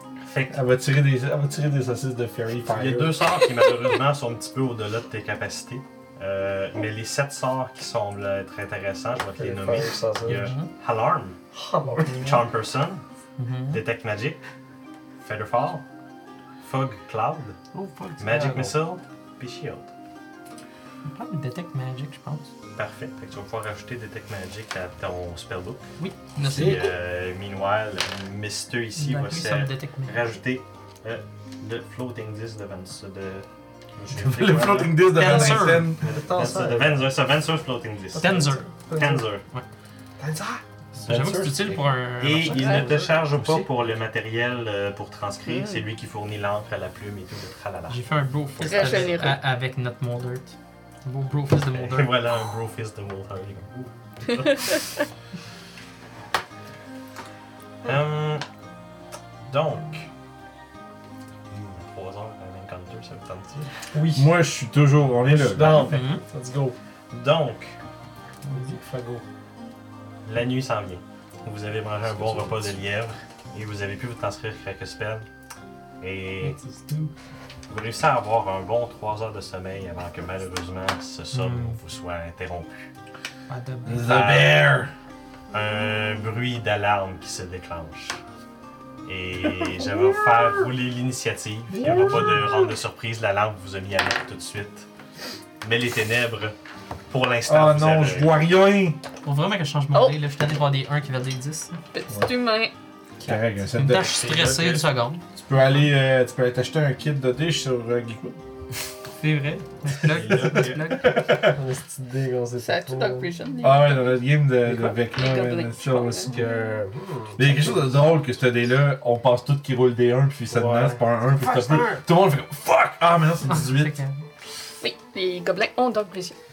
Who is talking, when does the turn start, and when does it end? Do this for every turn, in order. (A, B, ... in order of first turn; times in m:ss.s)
0:00.2-0:00.6 A
0:00.5-0:03.2 B
0:02.7-0:11.4 A
0:09.4-0:10.5 C
0:10.3-0:10.7 D
0:11.6-0:12.4 C
0:12.1-0:13.0 A
0:13.4-0:13.8 D
0:13.7-0:14.4 A
0:15.2-0:15.8 A
0:16.6-0:17.6 A
0:17.7-0:18.8 C
0:18.2-0:19.9 A
0:21.1-0:22.5 D
0:22.8-0:25.9 A
0:26.0-0:26.8 D
0:26.4-0:39.4 A
0:26.4-0:26.8 B
0:29.0-0:30.3 D
0:34.2-0:36.1 B
0:35.0-0:35.9 D
0:36.0-0:37.1 C
0:38.2-0:39.2 C
0:38.2-0:38.7 D
0:40.2-0:41.9 B
0:41.1-0:42.8 D
0:42.2-0:49.3 A
0:42.6-0:43.0 E
0:43.3-0:43.7 B
0:45.5-0:45.8 E
0:47.9-0:50.5 D
0:48.6-0:49.4 E
0:51.0-0:52.2 D
0:51.7-0:54.8 A
0:57.8-0:58.4 A
0:59.5-1:00.1 A
1:01.5-1:03.7 A
1:03.9-1:04.3 C
1:04.1-1:05.9 B
1:05.3-1:06.8 C
1:05.6-1:06.0 A
1:05.9-1:06.2 D
1:07.1-1:07.8 A
1:08.4-1:09.2 C
1:10.2-1:15.3 A
1:12.2-1:12.6 C
1:16.0-1:16.6 A
1:16.4-1:17.1 C
1:17.7-1:22.9 A
1:21.3-1:21.8 D
1:23.5-1:24.2 D
1:23.8-1:24.9 B
1:24.0-1:24.6 A
1:25.5-1:28.2 A
1:29.1-1:34.9 A
1:29.4-1:30.7 B
1:31.8-1:32.4 B
1:35.6-1:36.6 A
1:37.1-1:38.4 A
1:37.5-1:39.0 B
1:39.2-1:41.8 D
1:41.9-1:42.7 E
1:43.2-1:44.1 B
1:43.7-1:45.2 D
1:43.9-1:44.9 A
1:45.4-1:48.4 B
1:49.2-1:51.2 D
1:50.0-1:50.9 A
1:50.4-1:51.6 B
1:51.4-1:53.3 C
1:52.6-1:54.2 E
1:53.6-2:04.0 B
1:54.6-1:55.0 C
1:55.1-1:56.3 E
1:56.9-1:57.9 C
2:00.5-2:02.0 C
2:03.5-2:04.1 D
2:04.8-2:06.4 E